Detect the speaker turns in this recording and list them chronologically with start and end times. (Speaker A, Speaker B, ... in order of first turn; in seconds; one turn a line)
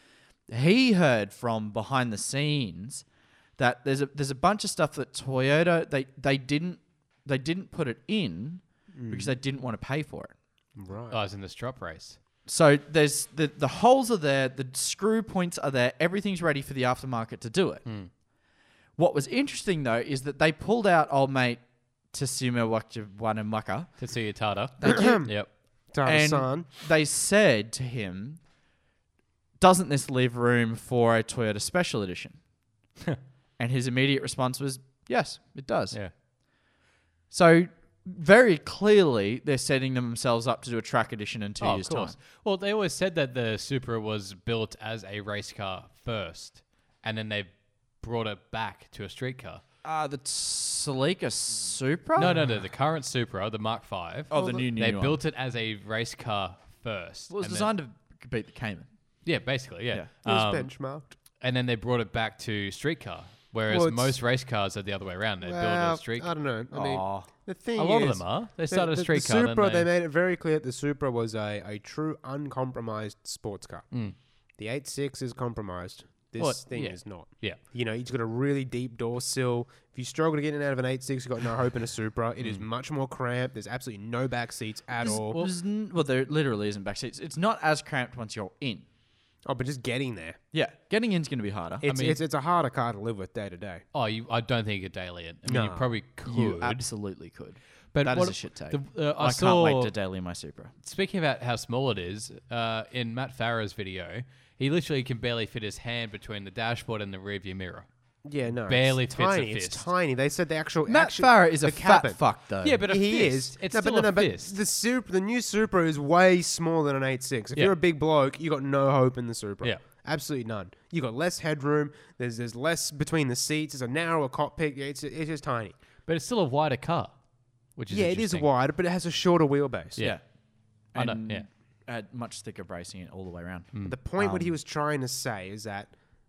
Speaker A: 0.5-3.0
Speaker A: 3.6-10.3
Speaker B: 8.9-9.3
Speaker B: 10.8-11.2
Speaker C: 11.1-12.2
Speaker A: 12.5-17.9
Speaker C: 17.9-18.1
Speaker A: 19.0-24.1
Speaker C: 24.0-25.5
Speaker A: 24.8-25.3
Speaker B: 24.8-25.4
Speaker B: 25.9-26.7
Speaker A: 26.0-28.4
Speaker A: 29.6-32.4
Speaker A: 33.6-36.0
Speaker A: 37.3-42.2
Speaker C: 41.6-49.6
Speaker A: 49.8-52.4
Speaker C: 52.2-57.7
Speaker B: 52.2-52.6
Speaker A: 54.3-55.2
Speaker B: 54.3-54.7
Speaker A: 57.3-58.9
Speaker C: 59.2-60.7
Speaker B: 60.2-61.1
Speaker C: 61.4-66.3
Speaker B: 63.7-64.2
Speaker B: 65.4-74.0
Speaker A: 66.7-67.3
Speaker C: 67.8-69.9
Speaker B: 74.6-85.4
Speaker C: 76.4-77.6
Speaker A: 85.0-88.9
Speaker C: 85.1-85.5
Speaker B: 89.5-90.4
Speaker A: 90.5-91.9
Speaker B: 91.8-93.8
Speaker C: 91.9-92.2
Speaker C: 93.9-96.8
Speaker B: 95.5-95.9
Speaker A: 96.3-100.7
Speaker C: 97.9-99.9
Speaker C: 100.8-107.9
Speaker B: 108.2-112.3
Speaker C: 108.7-109.9
Speaker A: 110.9-112.8
Speaker C: 112.6-114.5
Speaker B: 112.8-125.8
Speaker C: 126.1-127.2
Speaker C: 127.7-128.5
Speaker B: 127.9-130.1
Speaker C: 130.0-130.2
Speaker A: 130.0-130.3
Speaker C: 130.8-131.5
Speaker A: 130.8-134.5
Speaker B: 133.8-135.9